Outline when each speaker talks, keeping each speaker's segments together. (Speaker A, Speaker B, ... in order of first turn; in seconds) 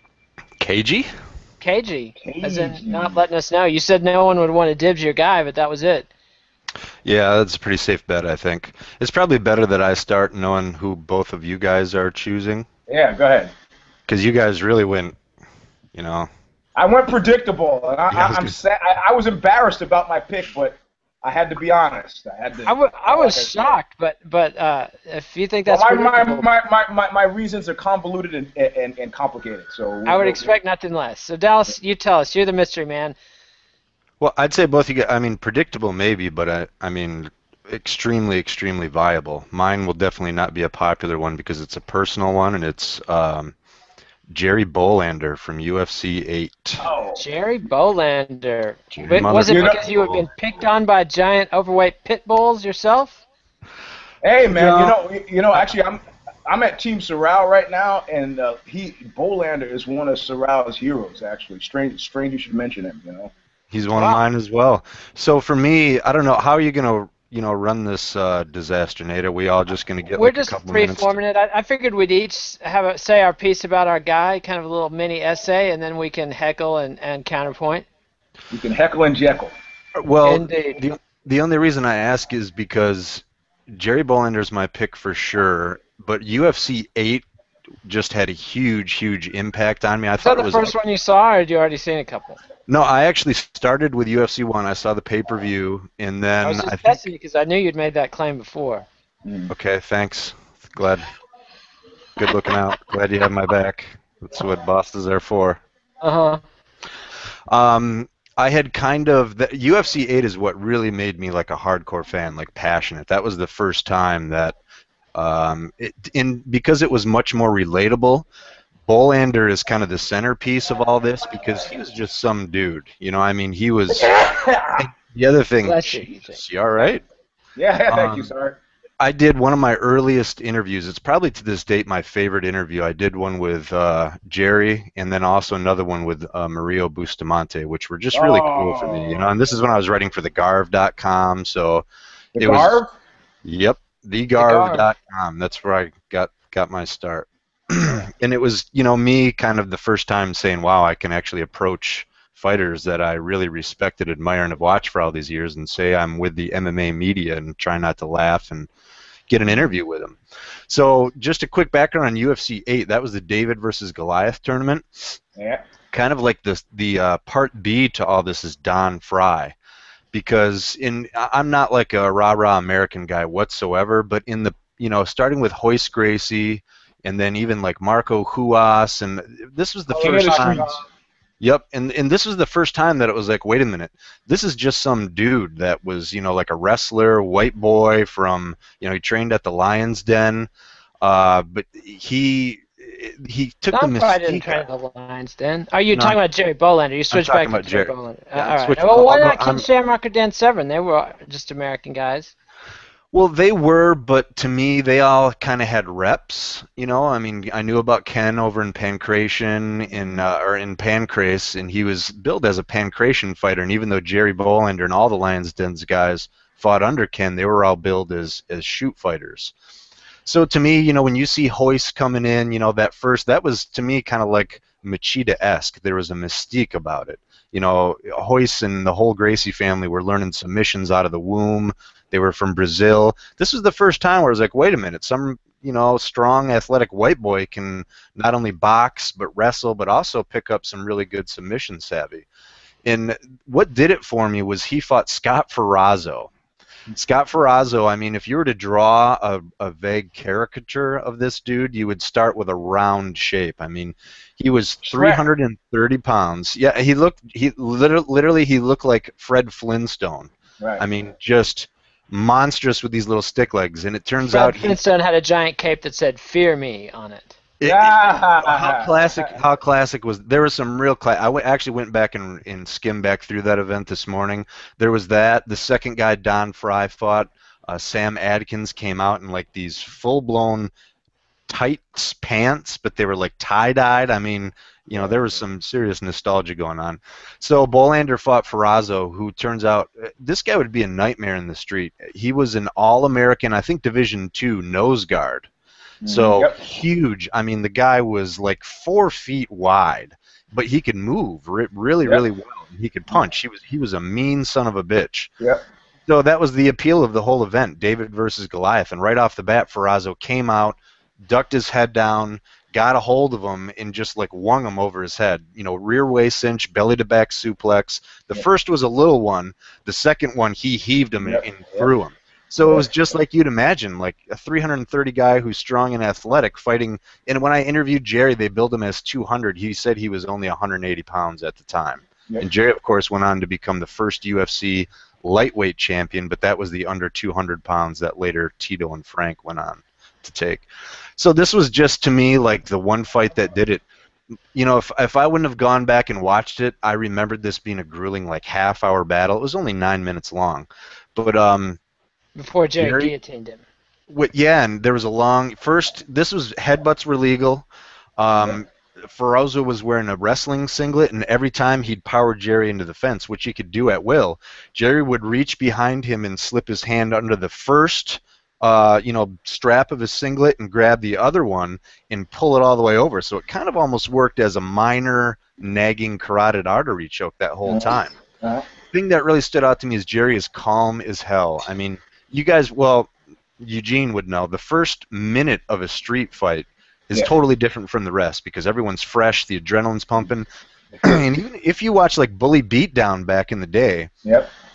Speaker A: 0.6-1.1, 7.0-12.7, 14.1-15.2, 15.9-16.3, 18.1-18.5, 34.2-43.5, 44.3-46.9, 48.9-50.2, 54.5-54.9, 63.7-71.2, 80.0-87.2, 87.8-90.7, 92.7-97.0, 99.5-101.1, 102.2-105.6, 107.5-114.5, 115.1-118.3, 118.9-124.1, 124.8-127.0, 127.9-128.3, 129.0-141.8, 142.4-142.8, 143.4-158.7, 159.3-165.2, 165.9-169.6, 170.1-180.7, 181.4-190.5, 191.0-194.6, 195.9-196.2, 197.1-199.6, 203.1-219.5, 220.2-242.2, 242.8-246.3, 246.9-264.8, 267.6-280.7, 281.5-295.5, 296.1-305.3, 306.1-343.8, 344.5-351.8, 352.8-353.1, 354.1-357.6, 358.2-378.2, 378.9-390.4, 391.0-394.1
Speaker B: 1.6-6.1, 22.6-26.4, 30.1-33.1, 47.2-53.2, 70.2-77.9, 80.2-80.8, 90.2-92.4, 96.4-98.8, 106.0-106.4, 125.6-126.4, 144.4-144.8, 180.0-180.7, 193.7-202.3, 264.3-267.4, 352.4-353.6
Speaker C: 2.2-3.2, 12.9-13.5, 16.8-23.7, 25.7-30.5, 46.8-47.2, 49.4-49.8, 54.2-63.3, 78.5-79.5, 99.2-99.5, 123.9-124.9, 127.5-128.6, 138.1-139.3, 142.3-142.9, 165.3-165.6, 179.9-180.8, 209.9-210.2, 254.8-255.2, 267.6-269.3, 284.9-285.4, 296.0-296.6, 321.2-321.9, 322.6-323.1, 377.6-378.6, 390.9-391.2, 394.2-394.5